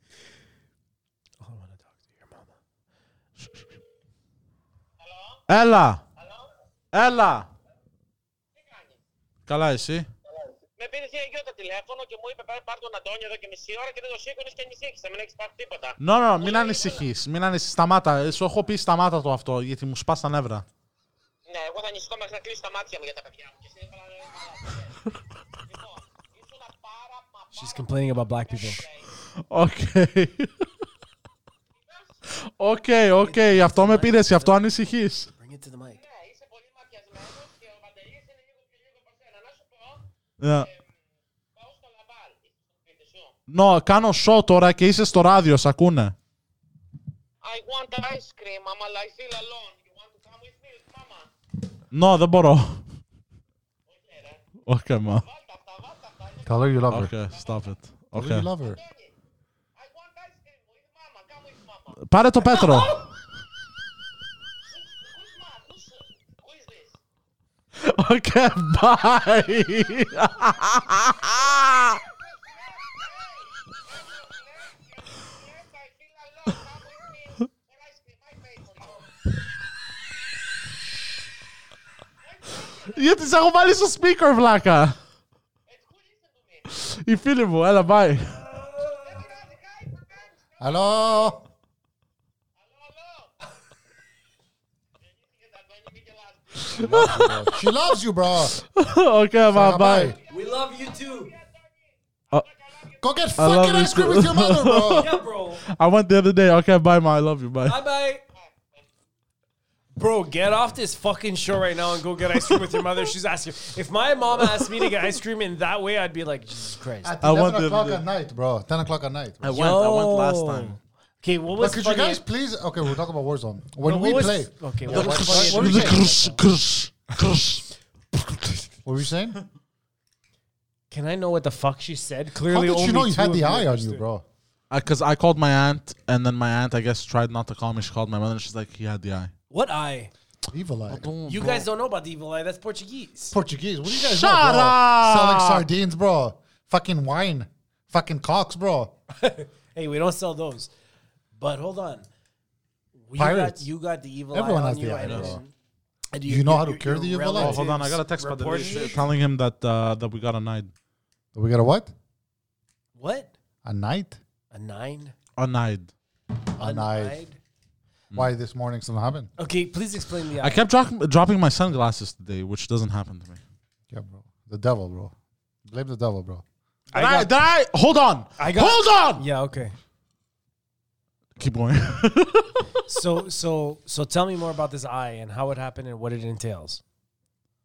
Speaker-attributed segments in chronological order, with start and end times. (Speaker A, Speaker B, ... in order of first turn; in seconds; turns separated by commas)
Speaker A: 1.4-2.5, Speaker B: 5.0-5.4, Speaker C: 5.5-6.0, Speaker B: 6.2-6.5, Speaker C: 6.9-7.5, Speaker B: 8.5-9.0, Speaker C: 9.5-10.1, Speaker B: 10.7-17.0, Speaker C: 16.0-20.6, Speaker B: 21.4-25.0, Speaker B: 25.7-29.1, Speaker A: 27.5-28.8, Speaker C: 29.4-30.6, Speaker B: 31.8-32.1, Speaker C: 32.3-35.3, Speaker A: 33.2-34.6, Speaker A: 35.4-36.0, Speaker B: 36.0-40.8, Speaker C: 40.4-40.7, Speaker B: 41.5-43.3, Speaker C: 43.5-46.1, Speaker B: 47.4-51.3, Speaker C: 51.9-52.9, Speaker B: 53.9-54.4, Speaker C: 54.6-55.2, Speaker B: 55.1-57.7, Speaker D: 56.4-57.1, Speaker C: 56.9-58.5, Speaker D: 58.1-58.8, Speaker B: 58.6-59.1, Speaker B: 59.8-63.1, Speaker C: 62.0-63.1, Speaker B: 64.7-67.0, Speaker C: 67.8-72.0, Speaker B: 69.2-69.9, Speaker B: 71.1-79.1, Speaker B: 82.2-83.1, Speaker C: 82.8-85.0, Speaker B: 85.7-86.7, Speaker C: 86.7-88.4, Speaker B: 88.9-91.4, Speaker D: 90.6-91.4, Speaker B: 92.6-93.5, Speaker B: 95.0-97.1, Speaker C: 96.6-97.7, Speaker D: 96.7-98.5, Speaker C: 98.4-100.2, Speaker D: 99.5-100.2, Speaker B: 100.1-103.0, Speaker A: 100.3-101.3, Speaker D: 103.0-105.1, Speaker C: 103.4-107.8, Speaker A: 105.0-105.6, Speaker A: 107.6-108.2, Speaker B: 108.4-108.8, Speaker A: 109.9-117.1, Speaker C: 112.5-112.8, Speaker C: 114.6-114.9, Speaker D: 117.0-119.5, Speaker C: 117.2-118.0, Speaker C: 119.4-120.8, Speaker A: 119.5-122.2, Speaker D: 121.6-126.0, Speaker A: 123.8-126.4, Speaker C: 124.9-127.6, Speaker D: 128.8-129.4, Speaker A: 130.9-134.0, Speaker D: 132.4-134.2, Speaker C: 134.7-139.3, Speaker A: 139.5-140.1, Speaker D: 140.5-141.1, Speaker C: 140.9-141.7, Speaker A: 141.2-143.3, Speaker D: 143.3-148.9, Speaker C: 143.9-145.7, Speaker A: 149.1-150.7, Speaker A: 151.4-152.1, Speaker A: 153.0-155.5, Speaker D: 153.1-153.7, Speaker D: 154.3-155.4, Speaker C: 155.0-155.3, Speaker A: 156.1-159.1, Speaker D: 156.2-157.6, Speaker C: 157.3-160.7, Speaker D: 161.3-161.9, Speaker A: 162.9-163.3, Speaker D: 163.6-164.2, Speaker A: 164.5-165.1, Speaker C: 165.4-165.9, Speaker D: 166.6-167.2, Speaker A: 166.6-167.4, Speaker D: 168.1-169.3, Speaker A: 169.4-170.6, Speaker C: 170.4-173.4, Speaker D: 173.9-175.1, Speaker D: 175.6-176.4, Speaker A: 176.9-177.3, Speaker C: 176.9-179.2, Speaker A: 178.4-179.7, Speaker C: 181.4-182.8, Speaker A: 182.9-186.8